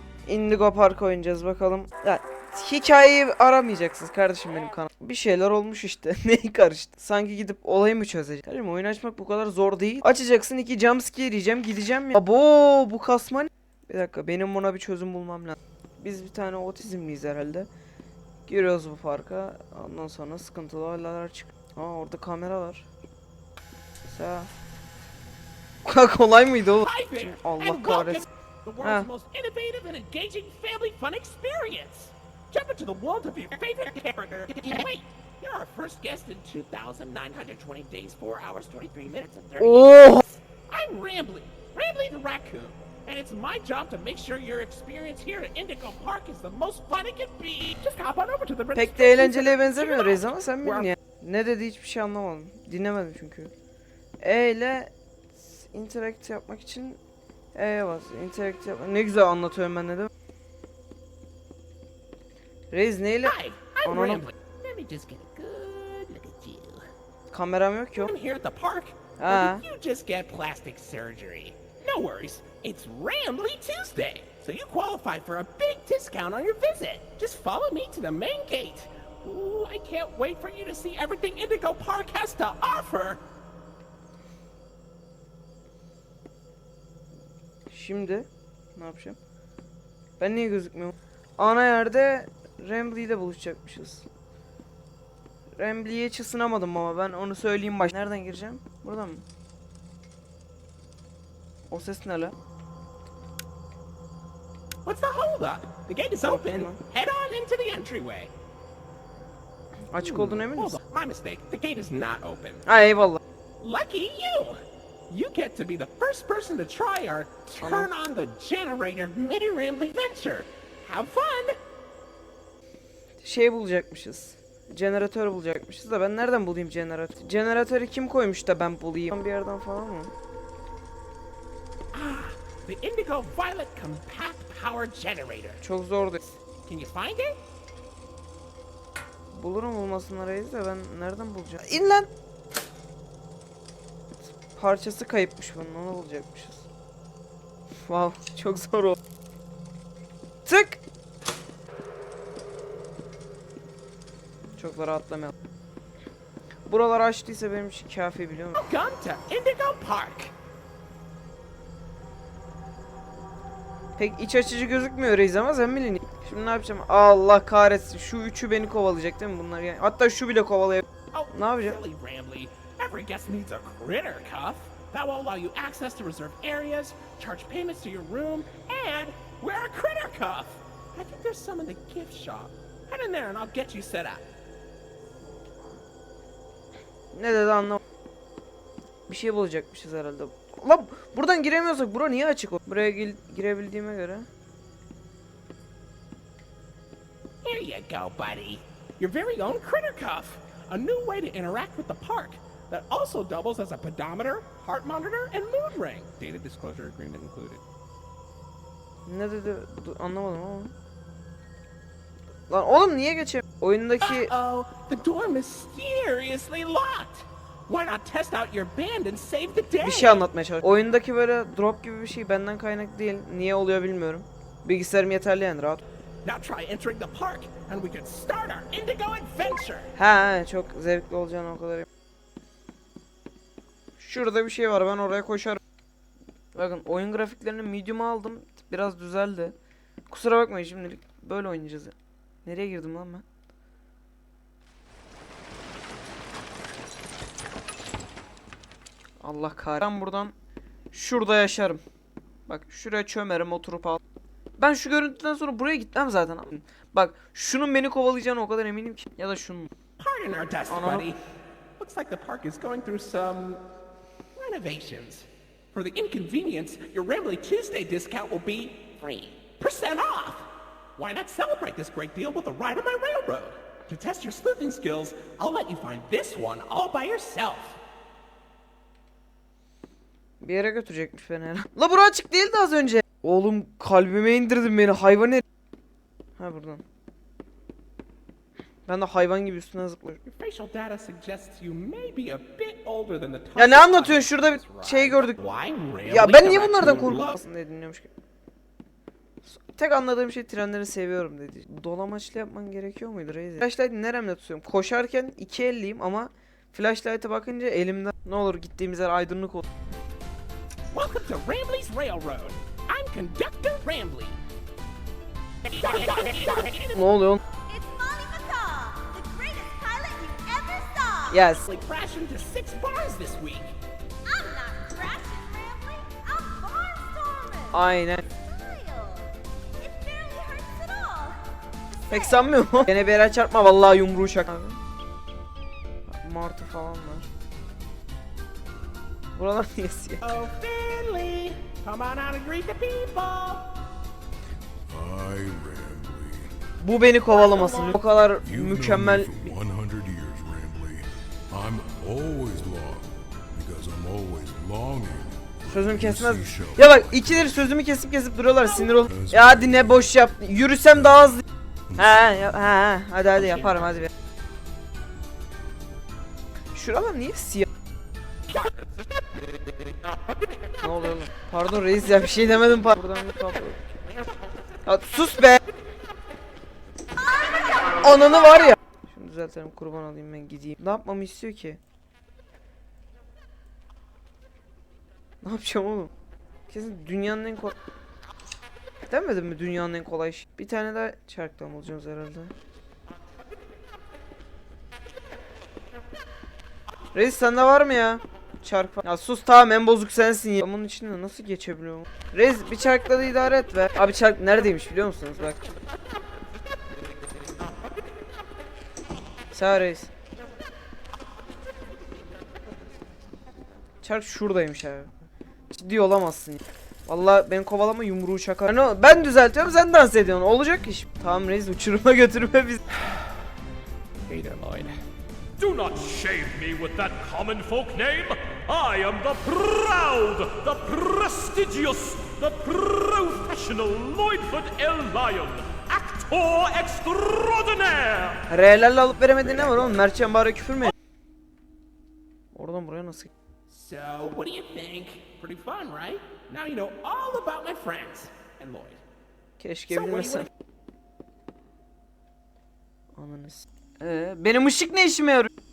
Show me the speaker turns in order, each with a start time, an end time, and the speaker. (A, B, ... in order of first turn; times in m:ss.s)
0:00.2-0:17.7 A
0:18.5-0:22.9 A
0:24.0-0:24.5 A
0:25.8-0:28.2 A
0:26.8-0:50.9 B
0:28.8-0:29.1 A
0:39.6-0:40.2 A
0:48.7-0:53.5 A
0:54.2-0:57.0 A
0:57.5-1:00.1 A
1:02.7-1:04.2 A
1:03.2-1:06.9 B
1:07.3-1:08.1 A
1:08.0-1:23.2 B
1:09.2-1:09.6 A
1:27.7-1:29.2 A
1:30.2-1:34.0 A
1:35.6-1:39.2 A
1:41.7-1:42.3 A
1:44.8-1:48.3 B
1:46.2-1:46.8 A
1:49.9-1:50.8 A
1:50.0-1:52.6 B
1:52.6-1:53.2 A
1:53.6-2:01.6 B
1:57.6-1:57.9 A
2:03.2-2:10.1 A
2:11.9-2:15.6 B
2:15.6-2:16.3 A
2:16.6-2:17.4 B
2:19.3-2:22.1 A
2:24.5-2:26.7 A
2:27.8-2:29.0 A
2:30.4-2:30.8 A
2:34.6-2:35.3 A
2:36.7-2:38.6 A
2:38.6-2:40.3 B
2:44.0-2:51.8 A
2:51.1-3:04.3 B
3:07.1-3:07.8 A
3:09.1-3:14.3 A
3:17.4-3:27.6 B
3:29.0-3:30.7 A
3:32.5-3:34.3 A
3:34.0-3:40.2 B
3:39.8-3:45.8 A
3:46.2-3:49.9 B
3:50.0-3:51.9 A
3:54.0-3:55.6 A
3:56.5-3:59.5 A
4:00.1-4:01.9 A
4:02.4-4:03.2 A
4:09.2-4:10.3 A
4:10.9-4:11.8 A
4:12.5-4:14.0 A
4:14.6-4:19.7 A
4:20.0-4:21.2 B
4:20.7-4:21.1 A
4:21.8-4:23.6 B
4:24.4-4:37.8 B
4:40.4-4:45.4 A
4:46.4-4:46.8 A
4:48.8-4:50.2 A
4:50.2-4:57.4 B
4:53.6-4:55.4 A
4:56.1-4:58.1 A
4:59.4-5:09.6 A
5:10.9-5:14.4 B
5:15.6-5:17.0 B
5:16.9-5:17.4 A
5:17.6-5:21.5 C
5:21.3-5:21.7 A
5:21.6-5:23.8 B
5:24.2-5:32.6 C
5:27.7-5:28.2 A
5:32.1-5:34.8 A
5:36.1-5:37.3 A
5:39.3-5:40.2 A
5:40.2-5:43.8 B
5:44.9-5:46.5 D
5:46.8-5:49.5 A
5:47.3-5:48.0 B
5:48.4-5:57.6 D
5:55.7-6:01.4 A
5:58.9-6:00.1 D
6:01.9-6:04.1 A
6:06.7-6:07.7 A
6:10.8-6:13.8 A
6:14.8-6:15.6 A
6:18.0-6:21.8 A
6:25.4-6:26.1 A
6:26.7-6:27.8 A
6:29.1-6:32.5 A
6:37.1-6:45.6 A
6:49.5-6:50.1 A
6:54.0-6:55.1 A
6:55.7-7:02.8 A
7:04.3-7:05.0 B
7:05.6-7:18.4 E
7:18.5-7:20.9 A
7:22.5-7:23.3 A
7:23.7-7:29.0 B
7:29.6-7:30.5 A
7:29.9-7:30.5 B
7:33.2-7:35.5 A